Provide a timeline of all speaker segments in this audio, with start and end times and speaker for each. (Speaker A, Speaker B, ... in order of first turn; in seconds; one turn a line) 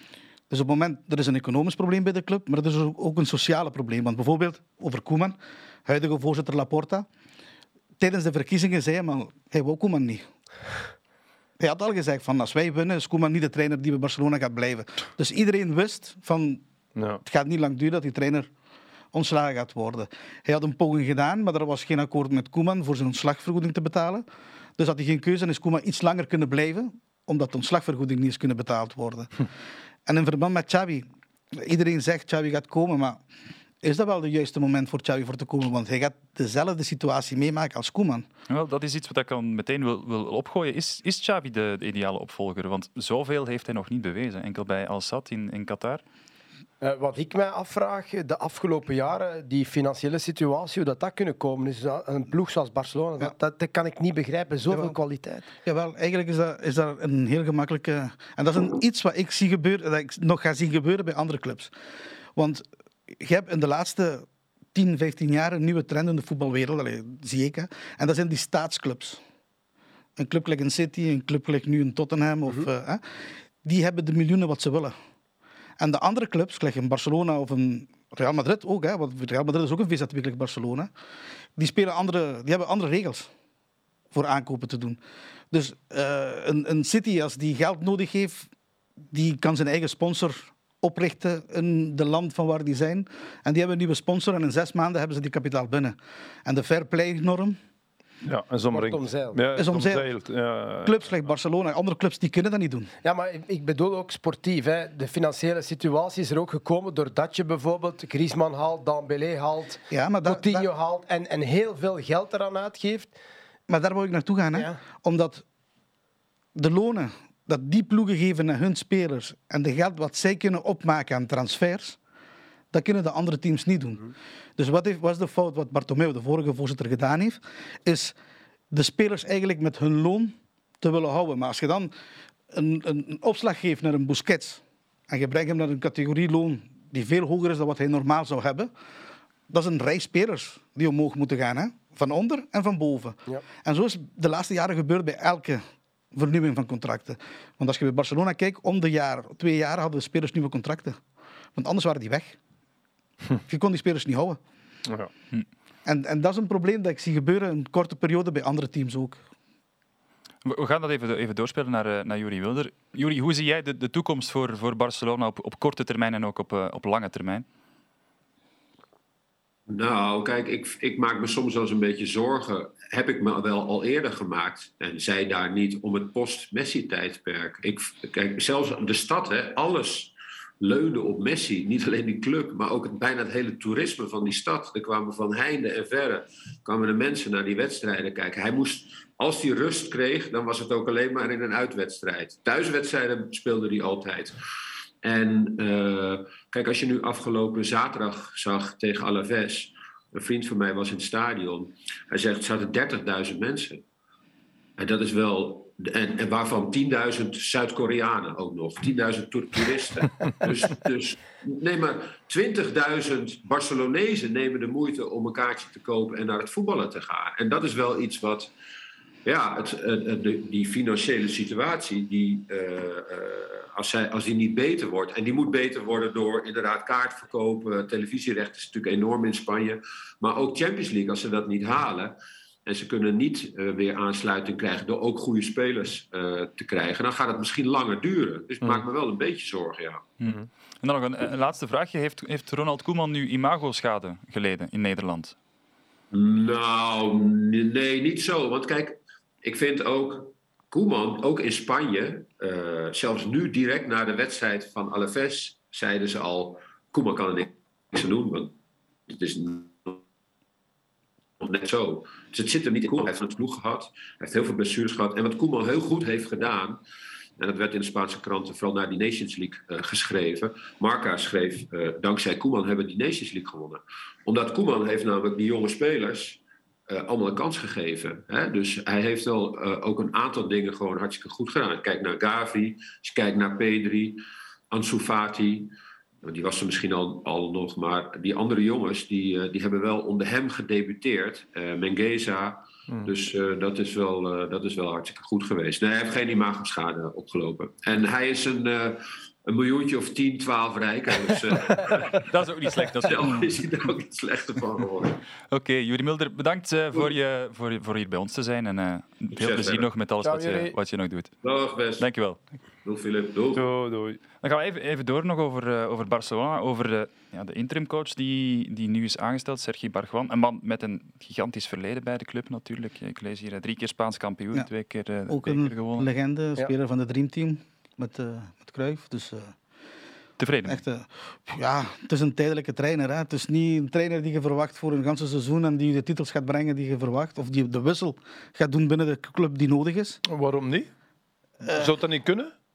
Speaker A: 0.5-7.1
Speaker A: 8.0-10.2
Speaker A: 11.6-16.6
Speaker B: 16.9-17.2
Speaker A: 17.2-18.5
Speaker A: 19.1-24.2
Speaker A: 24.8-29.3
Speaker A: 30.1-33.2
Speaker A: 33.8-38.3
Speaker C: 38.5-46.0
Speaker D: 46.8-55.5
Speaker A: 54.7-55.0
Speaker A: 55.6-61.7
Speaker A: 62.4-69.2
Speaker A: 70.2-74.9
Speaker A: 75.8-80.9
Speaker A: 81.6-83.3
Speaker A: 84.1-85.0
Speaker A: 85.5-88.5
Speaker A: 89.1-97.6
Speaker B: 98.2-101.0
Speaker D: 98.7-99.4
Speaker A: 99.6-100.1
Speaker A: 100.8-102.9
Speaker D: 103.0-113.1
Speaker A: 109.9-110.7
Speaker A: 113.7-115.4
Speaker A: 116.5-122.0
Speaker A: 122.7-128.2
Speaker A: 128.7-131.9
Speaker A: 132.5-138.7
Speaker A: 139.5-151.0
Speaker A: 151.6-152.4
Speaker A: 153.5-154.4
Speaker A: 155.9-159.2
Speaker C: 160.4-167.5
Speaker E: 169.7-194.4
Speaker E: 195.0-203.8
Speaker E: 204.8-218.5
Speaker E: 219.2-240.1
Speaker C: 240.2-245.3
Speaker E: 246.1-258.6
Speaker E: 259.1-260.0
Speaker E: 261.4-266.8
Speaker E: 267.4-285.7
Speaker E: 286.2-302.3
Speaker B: 292.9-293.1
Speaker C: 301.8-303.6
Speaker E: 303.0-305.2
Speaker C: 305.5-311.4
Speaker E: 309.3-309.9
Speaker D: 310.2-310.7
Speaker E: 311.4-312.1
Speaker C: 312.0-312.4
Speaker E: 312.8-313.7
Speaker B: 313.6-314.2
Speaker C: 314.4-326.1
Speaker A: 325.3-329.6
Speaker C: 330.4-330.8
Speaker A: 330.7-340.2
Speaker B: 340.2-340.9
Speaker A: 341.6-341.9
Speaker B: 341.7-342.5